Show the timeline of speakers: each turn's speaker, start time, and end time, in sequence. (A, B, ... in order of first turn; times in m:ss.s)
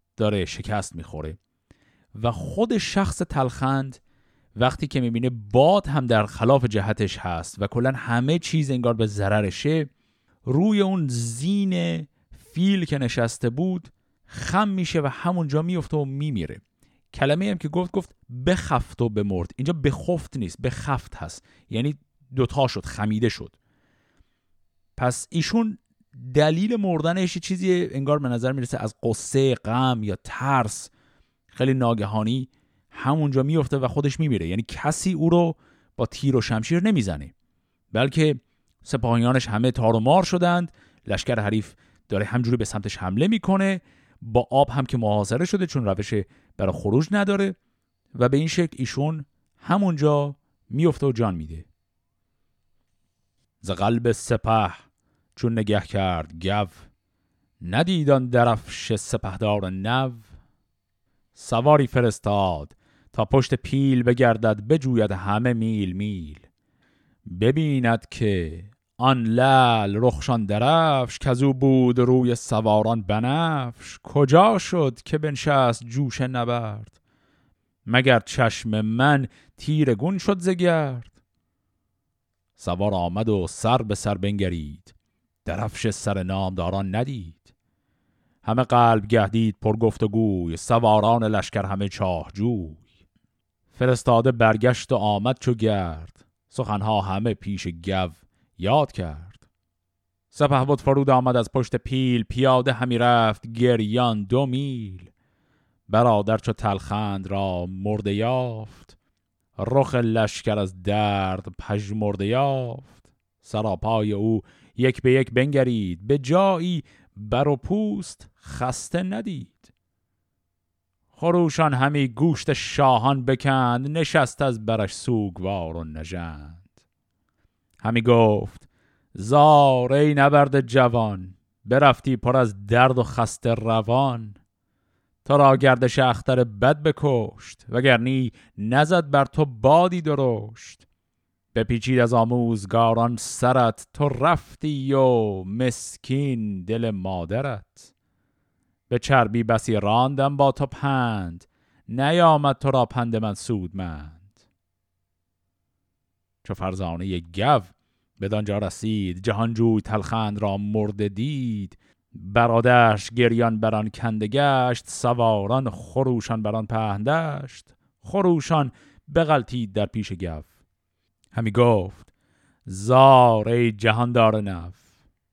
0:00.2-0:01.4 A
0:02.1-0:04.0 A
0:04.6-0:09.9 A
0:10.5-0:16.6 A
0:17.1-0:23.6 A
0:25.0-0:30.9 A
0:31.5-0:37.3 A
0:37.9-0:47.6 A
0:48.1-0:51.7 A
0:53.6-0:54.8 A
0:55.4-0:56.8 A
0:57.6-1:00.3 A
1:01.4-1:06.4 A
1:07.3-1:16.9 A
1:17.9-1:21.1 A
1:22.6-1:24.9 A
1:25.4-1:27.5 A
1:28.4-1:32.8 A
1:33.7-1:39.4 A
1:40.3-1:45.1 A
1:45.9-1:48.9 A
1:49.6-1:59.7 A
2:01.2-2:06.6 A
2:07.8-2:14.4 A
2:15.2-2:20.8 A
2:21.5-2:27.9 A
2:28.9-2:34.2 A
2:36.4-2:50.5 A
2:51.3-2:52.1 A
2:52.7-2:54.8 A